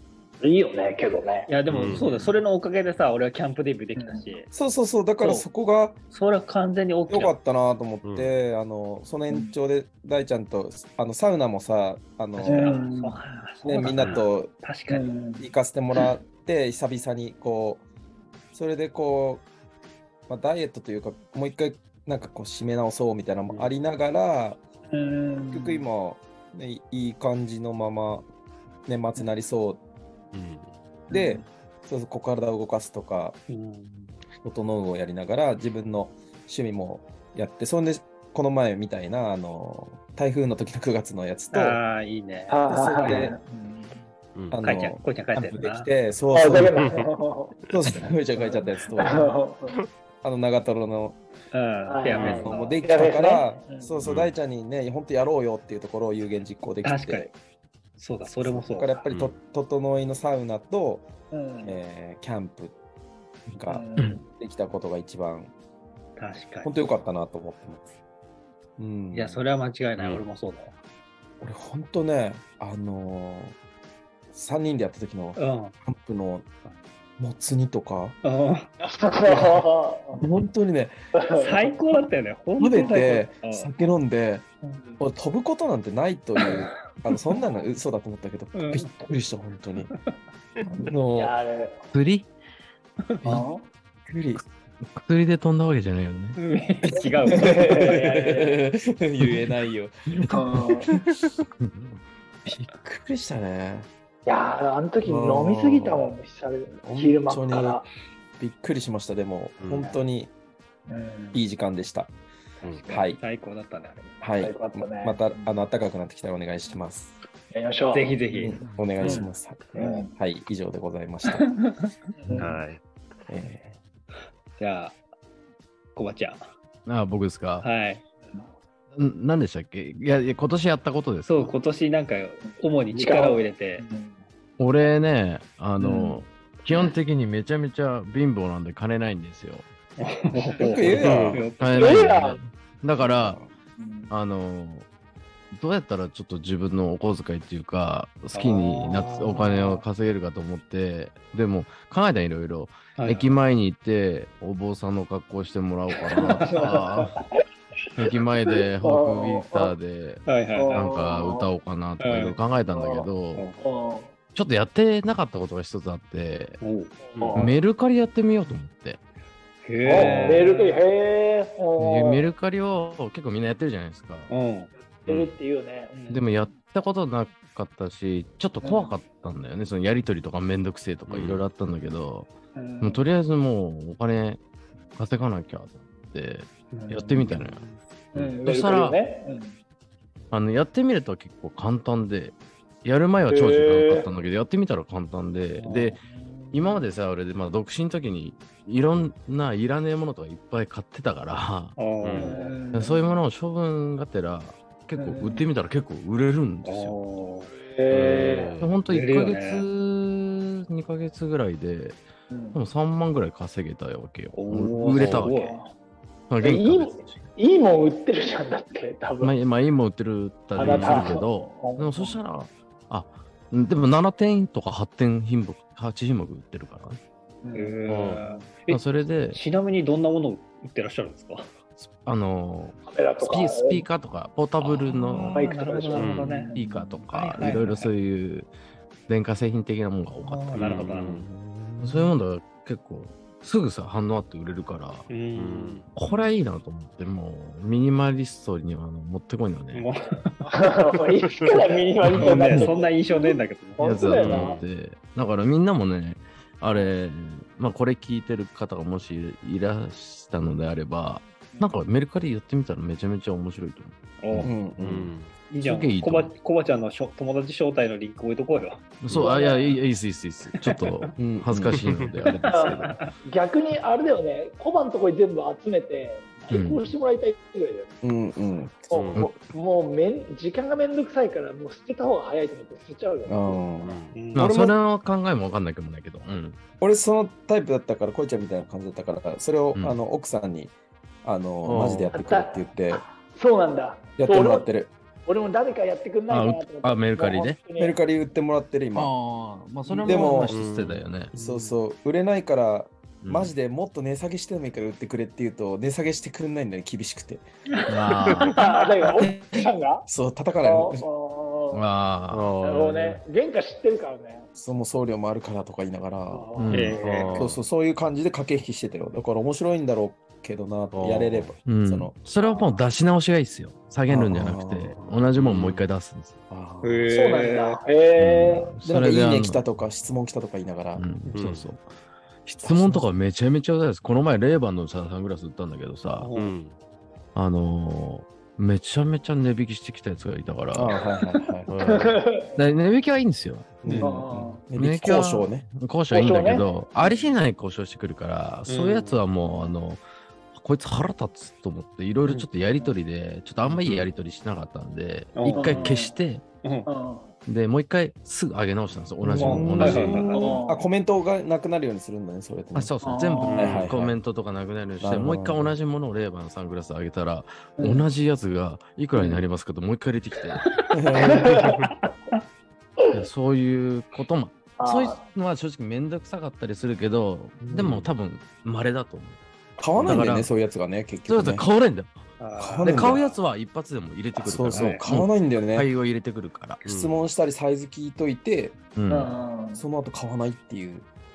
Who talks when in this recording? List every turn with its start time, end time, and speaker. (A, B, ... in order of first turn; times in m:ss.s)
0:00.4-0:01.5 A
0:01.5-0:04.5 B
0:01.7-0:02.3 C
0:04.0-0:04.2 A
0:04.5-0:06.0 D
0:05.2-0:05.5 B
0:06.1-0:07.3 B
0:07.1-0:12.8 D
0:08.0-0:08.4 C
0:12.4-0:15.1 B
0:12.4-0:13.2 A
0:13.6-0:14.5 D
0:14.0-0:14.2 C
0:14.9-0:16.1 A
0:15.4-0:17.8 D
0:18.5-0:19.4 D
0:20.3-0:24.6 D
0:24.9-0:25.8 A
0:25.5-0:28.3 D
0:28.9-0:29.8 D
0:30.3-0:30.7 C
0:31.1-0:31.4 A
0:31.1-0:33.4 D
0:33.5-0:34.1 B
0:34.4-0:41.8 D
0:41.5-0:43.3 B
0:42.5-0:44.0 A
0:42.7-0:43.4 D
0:44.4-0:44.7 C
0:44.5-0:46.8 D
0:44.6-0:45.9 B
0:46.3-0:47.6 A
0:46.7-0:47.1 C
0:47.7-0:49.3 D
0:48.4-0:49.8 A
0:50.2-0:51.2 D
0:51.5-0:52.8 B
0:51.8-0:54.0 A
0:52.2-0:52.4 C
0:52.2-0:57.3 D
0:54.0-0:54.3 C
0:56.8-0:57.3 B
0:58.0-0:59.0 B
0:58.2-1:01.1 D
0:59.1-0:59.4 C
1:01.3-1:01.8 A
1:01.6-1:02.8 D
1:03.5-1:05.5 D
1:03.7-1:04.2 A
1:06.2-1:06.8 B
1:06.6-1:08.0 D
1:08.8-1:09.4 D
1:09.1-1:10.7 B
1:11.4-1:13.6 D
1:14.3-1:16.4 D
1:15.4-1:15.7 B
1:17.2-1:18.2 D
1:18.2-1:18.7 B
1:18.8-1:20.2 A
1:20.2-1:21.0 D
1:21.2-1:21.6 A
1:21.4-1:23.7 B
1:22.6-1:24.4 D
1:24.6-1:25.0 A
1:25.0-1:29.9 D
1:28.5-1:28.9 B
1:30.7-1:31.9 A
1:30.8-1:31.4 D
1:31.9-1:32.3 E
1:33.2-1:33.5 E
1:33.3-1:33.7 A
1:34.1-1:34.4 D
1:35.0-1:36.4 E
1:36.4-1:37.6 B
1:37.3-1:39.9 D
1:37.3-1:38.6 A
1:39.2-1:39.5 E
1:40.1-1:40.7 E
1:40.3-1:40.9 A
1:41.6-1:42.0 E
1:42.5-1:43.9 D
1:44.3-1:47.9 A
1:45.0-1:46.1 D
1:46.9-1:47.8 D
1:48.4-1:50.3 D
1:49.6-1:49.9 C
1:50.9-1:51.4 A
1:51.3-1:52.1 D
1:52.6-1:52.9 C
1:52.7-1:54.2 B
1:52.9-1:53.2 D
1:54.2-1:57.2 D
1:54.4-1:55.6 A
1:57.5-1:58.2 A
1:57.9-1:59.2 B
1:58.3-2:01.5 D
1:59.0-2:00.1 A
2:02.2-2:02.6 A
2:02.4-2:02.8 C
2:03.3-2:03.8 D
2:04.6-2:05.0 B
2:06.0-2:06.5 B
2:06.9-2:07.7 E
2:07.6-2:08.0 B
2:09.0-2:11.4 E
2:11.2-2:13.9 B
2:12.9-2:14.2 A
2:14.6-2:19.7 E
2:15.8-2:16.1 A
2:20.0-2:22.2 B
2:20.6-2:21.5 D
2:20.9-2:23.4 E
2:21.0-2:21.5 C
2:21.8-2:22.4 A
2:23.0-2:23.5 D
2:23.8-2:24.1 A
2:24.1-2:24.9 E
2:25.5-2:37.2 E
2:28.3-2:29.5 B
2:33.0-2:33.3 B
2:36.5-2:37.4 A
2:38.0-2:43.5 E
2:38.5-2:39.8 A
2:40.3-2:40.9 B
2:40.5-2:41.5 A
2:42.0-2:42.4 B
2:42.7-2:44.1 A
2:43.3-2:43.6 B
2:44.4-2:46.6 E
2:46.6-2:47.4 B
2:47.0-2:47.6 A
2:47.3-2:49.0 E
2:49.6-2:50.8 B
2:49.8-2:52.3 A
2:51.8-2:54.3 E
2:54.3-2:54.7 B
2:54.8-2:56.2 A
2:56.1-3:04.4 E
2:58.6-2:58.9 A
3:01.1-3:01.4 C
3:02.6-3:03.0 A
3:05.0-3:09.0 E
3:06.7-3:07.3 A
3:07.4-3:07.8 C
3:08.1-3:09.6 A
3:10.3-3:16.0 E
3:13.3-3:14.1 A
3:15.6-3:16.0 B
3:16.0-3:16.8 A
3:16.5-3:21.8 E
3:21.8-3:22.6 B
3:22.0-3:22.4 C
3:22.2-3:23.2 A
3:22.7-3:27.0 E
3:25.0-3:25.4 A
3:26.6-3:27.5 B
3:27.5-3:28.6 A
3:27.9-3:28.7 C
3:28.6-3:32.0 E
3:28.9-3:29.6 B
3:32.3-3:32.6 A
3:32.5-3:35.6 E
3:34.3-3:35.6 B
3:34.9-3:35.3 C
3:35.4-3:35.7 A
3:36.3-3:37.3 E
3:36.4-3:39.4 A
3:39.2-3:47.0 E
3:40.6-3:42.2 A
3:40.6-3:41.0 C
3:47.4-3:47.8 A
3:47.5-3:51.5 B
3:47.9-3:48.2 C
3:48.7-3:49.4 E
3:51.8-3:55.4 E
3:52.9-3:53.9 A
3:54.6-3:56.5 B
3:55.2-3:57.0 A
3:56.0-3:56.4 C
3:56.5-3:58.5 E
3:57.1-3:57.9 B
3:59.1-4:01.0 E
4:00.2-4:01.2 B
4:00.5-4:01.3 C
4:01.1-4:02.1 D
4:01.8-4:05.1 E
4:05.1-4:05.8 B
4:05.4-4:05.9 C
4:05.9-4:09.9 E
4:09.7-4:10.4 B
4:10.1-4:14.6 A
4:12.1-4:14.0 B
4:12.2-4:12.5 E
4:13.8-4:24.5 E
4:14.0-4:14.7 C
4:24.2-4:24.5 B
4:24.4-4:25.1 D
4:24.8-4:25.3 C
4:25.5-4:29.7 B
4:25.6-4:26.4 E
4:29.0-4:33.1 E
4:29.1-4:29.8 A
4:30.7-4:31.1 B
4:31.2-4:31.8 D
4:31.7-4:32.2 C
4:32.3-4:33.0 B
4:32.5-4:38.0 A
4:36.5-4:36.9 E
4:38.0-4:39.1 D
4:38.9-4:39.3 C
4:39.0-4:43.8 A
4:43.3-4:44.8 D
4:43.8-4:44.2 C
4:44.1-4:44.5 B
4:44.4-4:46.6 E
4:46.8-4:53.0 D
4:49.8-4:50.0 E
4:51.7-4:52.0 E
4:51.7-4:52.1 C
4:52.0-4:54.7 A
4:54.2-4:54.9 D
4:55.3-4:58.0 A
4:56.3-4:57.6 E
4:57.8-4:59.1 D
4:59.0-5:01.3 E
4:59.9-5:00.3 A
5:00.0-5:00.6 D
5:00.5-5:01.0 C
5:01.3-5:07.4 D
5:01.4-5:01.7 A
5:03.2-5:03.5 E
5:07.9-5:08.6 E
5:08.5-5:10.0 A
5:10.1-5:11.0 D
5:10.6-5:11.8 A
5:11.7-5:12.6 E
5:12.3-5:13.2 C
5:12.6-5:14.5 A
5:14.6-5:16.5 D
5:16.3-5:17.3 A
5:16.6-5:17.0 E
5:16.7-5:17.5 B
5:17.0-5:17.6 C
5:17.4-5:22.1 D
5:20.9-5:21.6 C
5:21.6-5:26.4 E
5:22.4-5:22.8 A
5:24.1-5:25.1 D
5:25.3-5:25.8 C
5:26.5-5:27.0 D
5:26.8-5:27.8 B
5:27.1-5:28.7 A
5:28.2-5:29.6 E
5:28.9-5:31.0 D
5:31.0-5:31.9 E
5:31.3-5:31.7 C
5:32.4-5:36.3 E
5:32.6-5:33.0 D
5:36.2-5:36.6 B
5:36.4-5:36.8 C
5:37.4-5:41.0 E
5:40.7-5:41.7 D
5:41.7-5:42.2 C
5:41.8-5:42.5 A
5:42.6-5:44.0 E
5:43.8-5:45.7 D
5:43.8-5:44.1 B
5:44.0-5:44.7 A
5:44.7-5:50.0 E
5:46.1-5:47.3 A
5:48.7-5:49.2 B
5:50.5-5:56.4 E
5:55.4-5:55.9 B
5:55.5-5:56.2 A
5:56.6-5:56.9 B
5:56.8-5:57.3 A
5:57.5-6:00.3 E
5:59.2-6:02.9 D
5:59.4-6:00.4 B
6:00.3-6:00.8 A
6:02.8-6:10.7 E
6:03.0-6:03.7 A
6:03.5-6:03.9 B
6:03.5-6:04.2 D
6:05.0-6:05.8 D
6:07.8-6:08.0 A
6:09.2-6:09.4 D
6:10.9-6:11.7 D
6:11.2-6:12.0 A
6:13.1-6:19.4 E
6:14.8-6:15.2 A
6:17.6-6:18.1 C
6:19.8-6:21.7 D
6:20.0-6:20.3 C
6:20.0-6:20.5 E
6:21.3-6:22.2 E
6:22.4-6:23.4 B
6:22.6-6:23.2 D
6:22.8-6:26.8 E
6:24.4-6:25.9 D
6:24.7-6:25.0 B
6:26.8-6:27.2 C
6:26.9-6:28.8 D
6:29.0-6:29.3 E
6:29.1-6:29.8 A
6:29.8-6:31.1 D